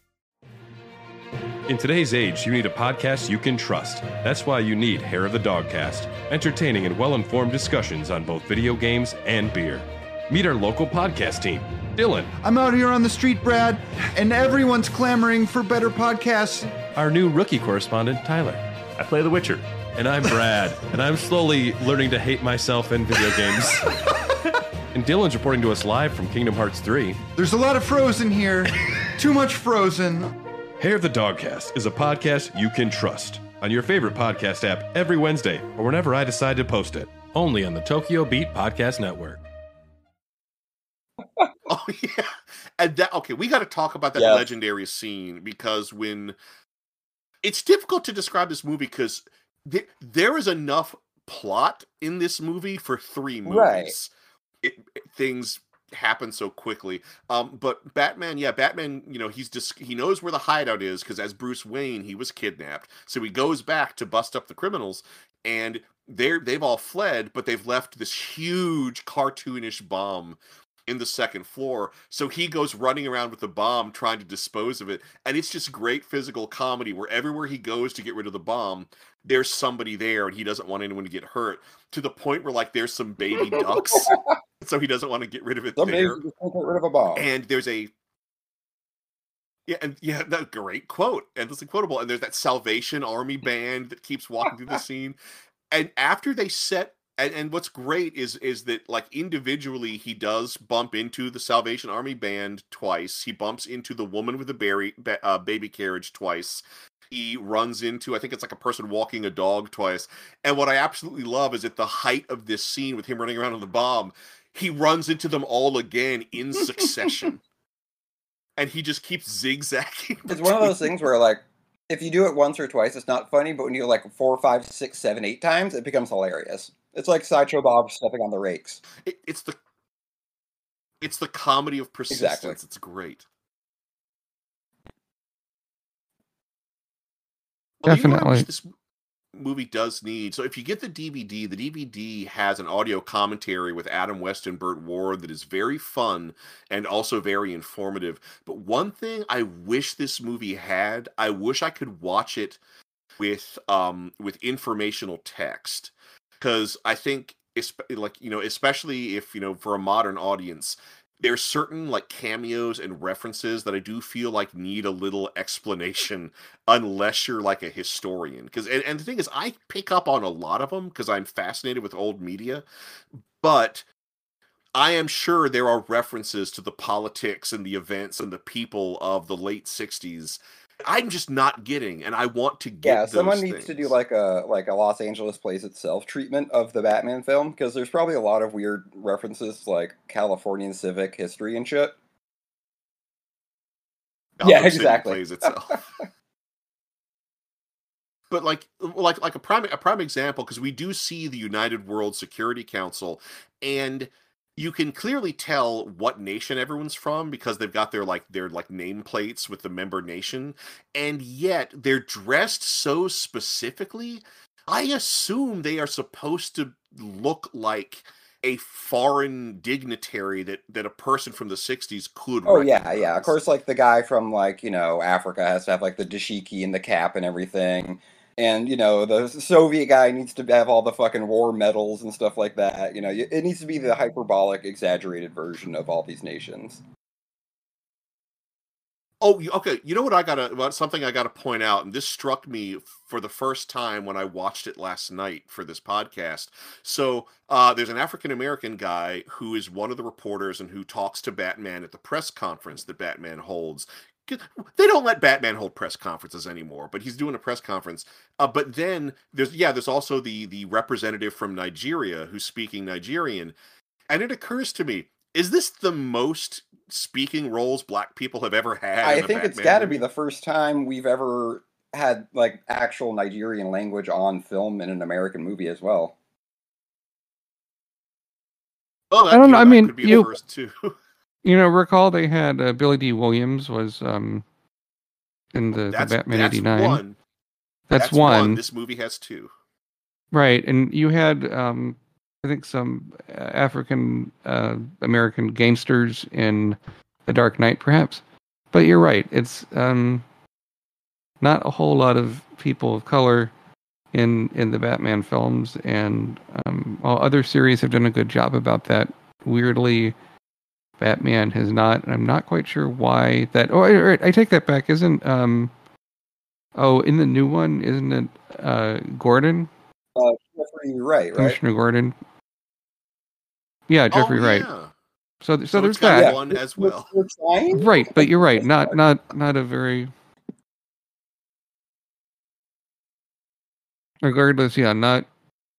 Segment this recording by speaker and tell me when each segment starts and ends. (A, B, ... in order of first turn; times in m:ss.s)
0:01.7-0:12.3 A
0:12.4-0:16.8 B
0:17.0-0:23.9 A
0:24.9-0:27.2 A
0:27.4-0:30.3 B
0:30.8-0:39.4 A
0:41.7-0:46.4 C
0:44.2-0:44.5 D
0:47.4-0:54.1 C
0:53.5-0:54.0 D
0:54.6-1:26.2 C
1:23.4-1:24.2 D
1:25.8-1:27.3 D
1:27.1-1:27.9 C
1:29.7-1:35.2 C
1:35.7-1:57.4 C
1:58.6-2:00.9 C
2:00.3-2:08.8 D
2:09.0-2:09.6 C
2:11.0-2:13.2 C
2:12.1-2:12.6 D
2:17.8-2:18.7 C
2:17.9-2:18.5 E
2:19.3-2:32.6 C
2:33.2-2:52.6 C
2:53.4-2:53.8 C
2:54.8-3:03.9 C
3:02.8-3:12.0 D
3:14.4-3:15.8 C
3:14.4-3:15.6 D
3:18.3-3:43.4 C
3:42.4-3:56.8 D
3:59.2-4:23.6 C
4:24.1-4:30.0 C
4:29.0-4:36.1 D
4:39.1-4:41.0 C
4:39.3-4:40.3 E
4:41.4-4:44.4 E
4:45.5-4:47.0 E
4:45.7-4:47.2 C
4:47.9-4:48.6 E
4:48.0-4:49.5 C
4:50.3-4:58.2 E
4:58.7-5:00.2 E
5:01.4-5:03.5 E
5:04.1-5:10.2 E
5:11.0-5:15.7 E
5:16.8-5:19.7 E
5:20.2-5:21.6 D
5:21.4-5:22.2 E
5:23.9-5:24.7 E
5:24.1-5:24.9 C
5:25.4-5:26.4 E
5:25.7-5:27.1 C
5:26.1-5:29.0 D
5:27.7-5:30.1 E
5:34.2-5:35.3 E